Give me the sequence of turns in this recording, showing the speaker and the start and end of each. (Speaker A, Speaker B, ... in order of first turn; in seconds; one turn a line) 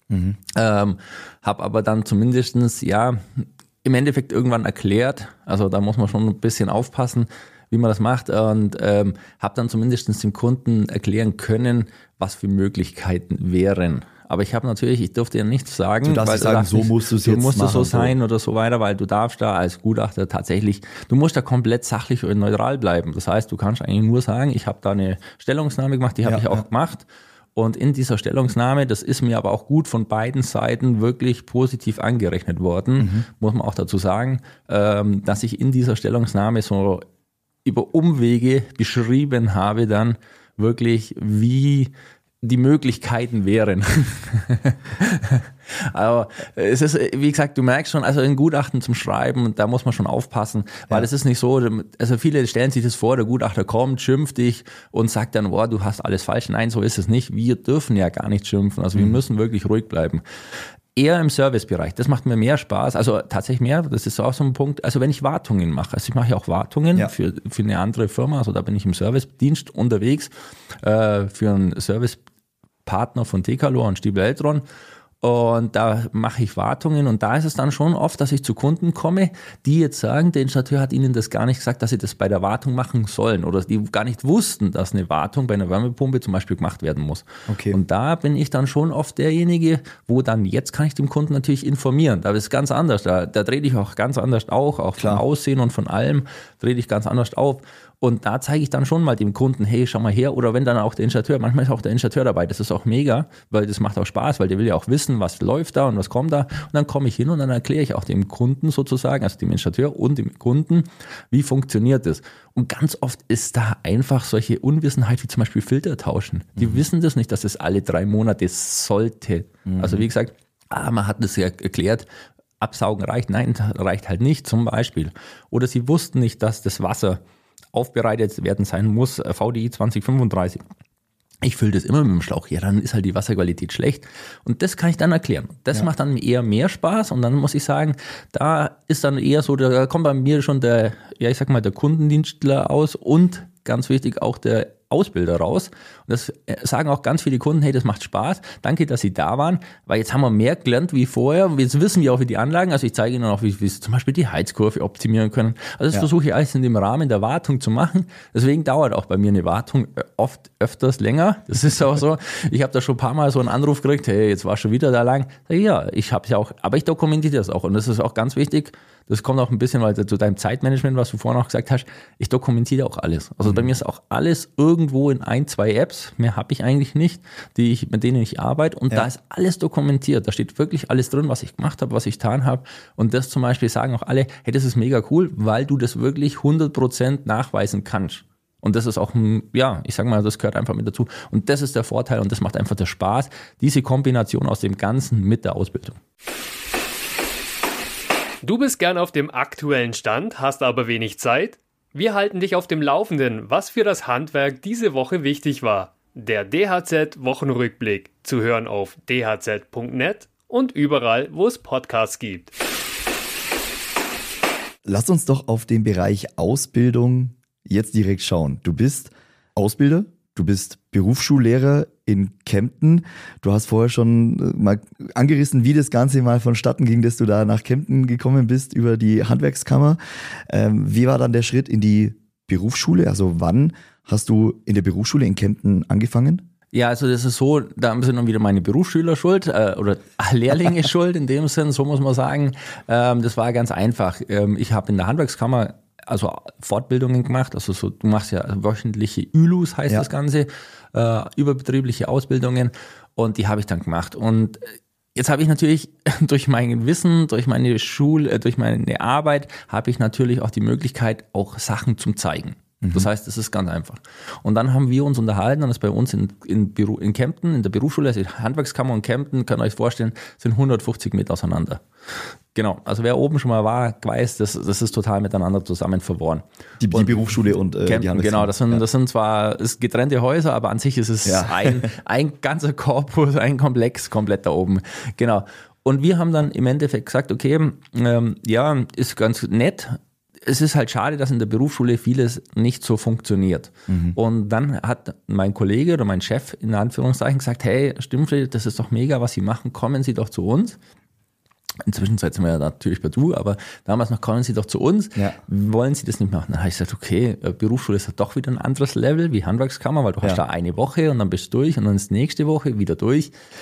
Speaker A: 0.1-0.4
Speaker B: 0.5-37.1
Speaker A: 16.1-18.1
Speaker A: 26.2-26.6
Speaker A: 33.0-33.3
Speaker B: 37.6-41.9
Speaker B: 42.4-60.2
Speaker B: 61.0-72.2
Speaker B: 72.8-74.6
Speaker B: 75.2-122.1
Speaker A: 87.5-87.8
Speaker A: 95.0-95.2
Speaker A: 119.7-120.0
Speaker B: 122.6-127.2
Speaker B: 127.7-130.6
Speaker B: 131.4-196.0
Speaker A: 173.4-173.7
Speaker C: 198.4-212.5
Speaker A: 214.8-236.4
Speaker B: 236.7-277.3
Speaker A: 262.8-263.1
Speaker A: 276.8-278.8
Speaker B: 277.9-300.8
Speaker A: 281.3-281.9
Speaker A: 293.9-294.2
Speaker B: 301.9-313.3